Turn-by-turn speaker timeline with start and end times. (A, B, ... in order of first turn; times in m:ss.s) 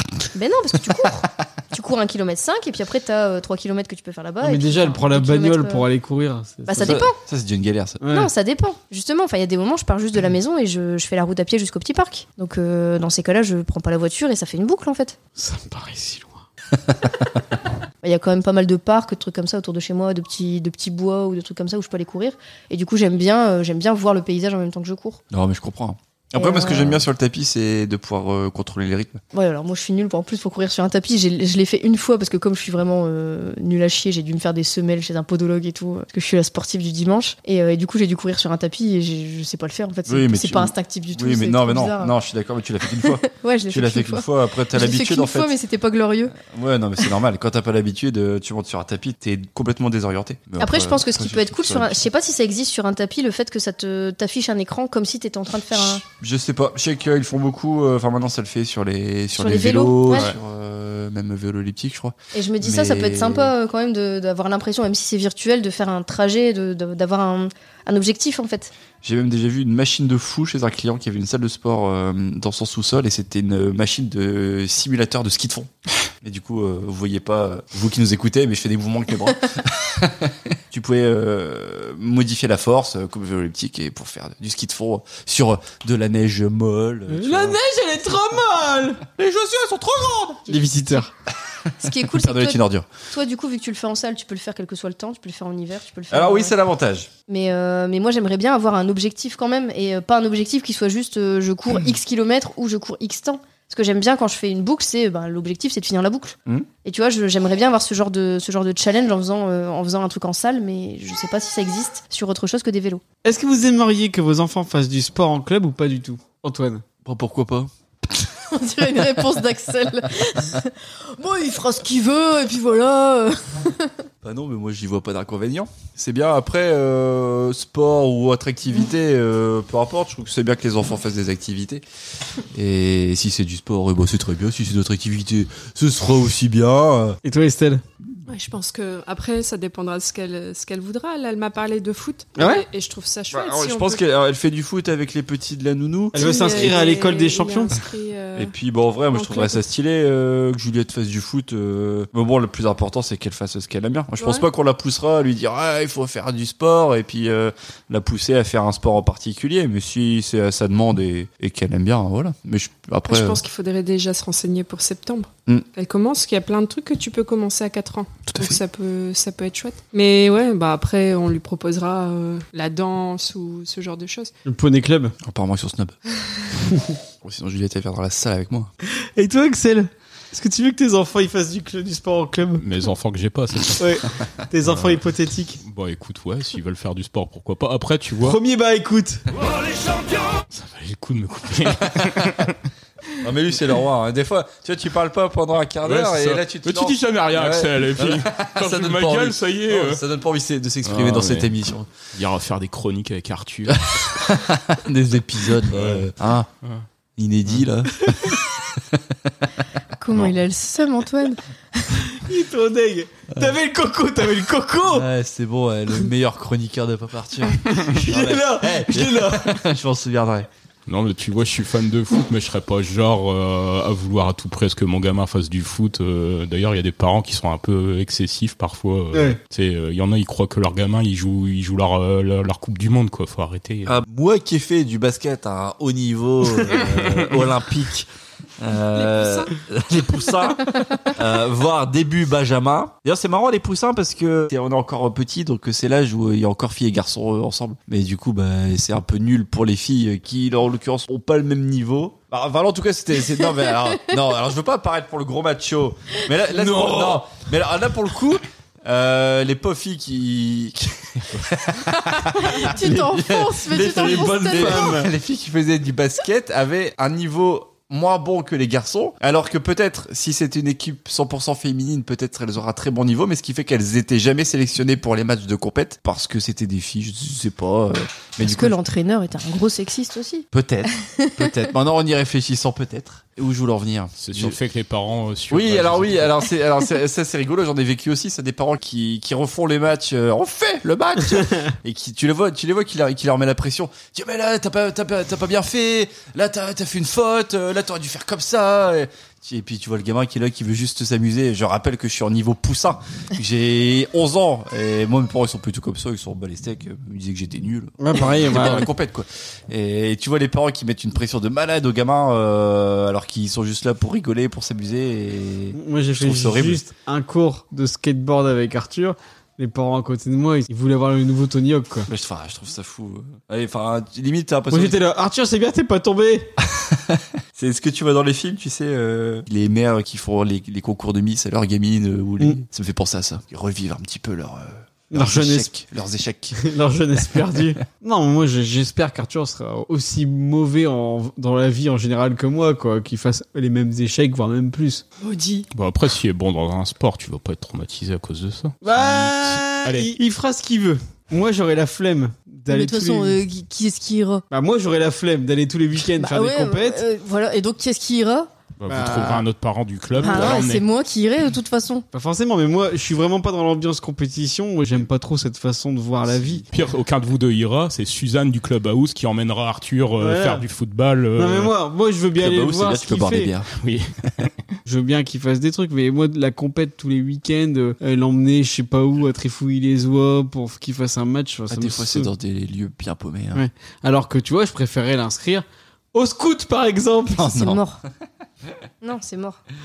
0:00.3-0:05.9 A
0:04.4-0:07.0 B
0:06.7-0:07.2 A
0:06.8-0:08.0 C
0:08.0-0:08.3 B
0:08.1-0:15.2 A
0:15.4-0:16.4 B
0:18.0-0:25.2 A
0:25.3-0:29.2 C
0:26.4-0:27.0 A
0:29.3-0:42.1 A
0:40.1-0:45.5 C
0:43.0-0:46.4 A
0:46.4-0:52.0 C
0:50.6-0:56.0 A
0:56.0-1:03.5 C
0:59.4-1:00.3 A
1:02.3-1:08.7 A
1:09.0-1:15.7 C
1:16.2-1:27.6 C
1:27.1-1:29.0 B
1:29.2-1:30.4 C
1:30.5-1:31.1 B
1:31.8-1:36.6 A
1:32.0-1:32.9 C
1:36.1-1:37.1 C
1:37.3-1:53.0 A
1:53.2-1:56.8 B
1:57.0-1:57.7 C
1:58.5-2:03.9 A
2:04.2-2:11.8 C
2:12.5-2:17.2 C
2:17.2-2:17.8 B
2:18.3-2:24.0 D
2:22.4-2:22.7 B
2:23.3-2:26.8 C
2:26.1-2:27.8 B
2:26.2-2:28.5 D
2:28.4-2:43.4 C
2:29.1-2:29.6 D
2:34.2-2:34.5 D
2:43.1-2:54.3 D
2:48.3-2:48.6 C
2:54.4-2:55.2 B
2:55.2-2:56.0 C
2:57.2-2:58.7 C
2:58.9-3:02.6 B
3:02.6-3:04.0 E
3:03.8-3:05.6 B
3:04.6-3:05.0 E
3:05.6-3:08.4 E
3:08.2-3:09.2 B
3:10.5-3:12.6 E
3:12.0-3:12.3 C
3:13.2-3:21.9 C
3:15.8-3:20.0 E
3:20.8-3:21.6 E
3:22.2-3:23.8 E
3:23.7-3:26.5 C
3:25.7-3:26.1 E
3:27.2-3:28.4 C
3:30.0-3:32.0 A
3:32.2-3:35.1 B
3:34.8-3:40.5 C
3:37.7-3:39.6 B
3:40.9-3:54.0 E
3:53.8-4:38.8 C
3:58.9-3:59.5 D
4:16.6-4:17.2 B
4:22.3-4:25.0 A
4:23.9-4:25.1 B
4:38.4-4:40.5 A
4:40.5-4:44.6 C
4:41.1-4:41.4 A
4:44.2-4:46.4 E
4:45.5-5:16.8 C
5:08.0-5:08.9 B
5:15.8-5:22.1 B
5:22.1-5:25.0 C
5:24.7-5:26.5 B
5:26.8-5:36.7 C
5:35.1-5:35.7 B
5:36.6-5:45.0 B
5:45.2-5:45.7 D
5:45.7-5:50.1 E
5:48.8-5:53.4 B
5:52.7-5:54.4 A
5:54.5-5:57.0 B
5:56.2-5:58.5 A
5:58.8-6:00.8 E
5:58.9-5:59.5 B
6:00.1-6:00.6 B
6:00.2-6:02.1 A
6:02.1-6:06.6 B
6:06.2-6:06.7 C
6:06.7-6:11.7 E
6:10.2-6:10.6 B
6:11.4-6:13.5 B
6:12.4-6:13.7 C
6:13.8-6:14.4 E
6:14.8-6:22.3 B
6:21.7-6:23.6 C
6:23.6-6:27.5 B
6:27.4-6:27.8 C
6:27.4-6:28.0 A
6:29.0-6:29.6 A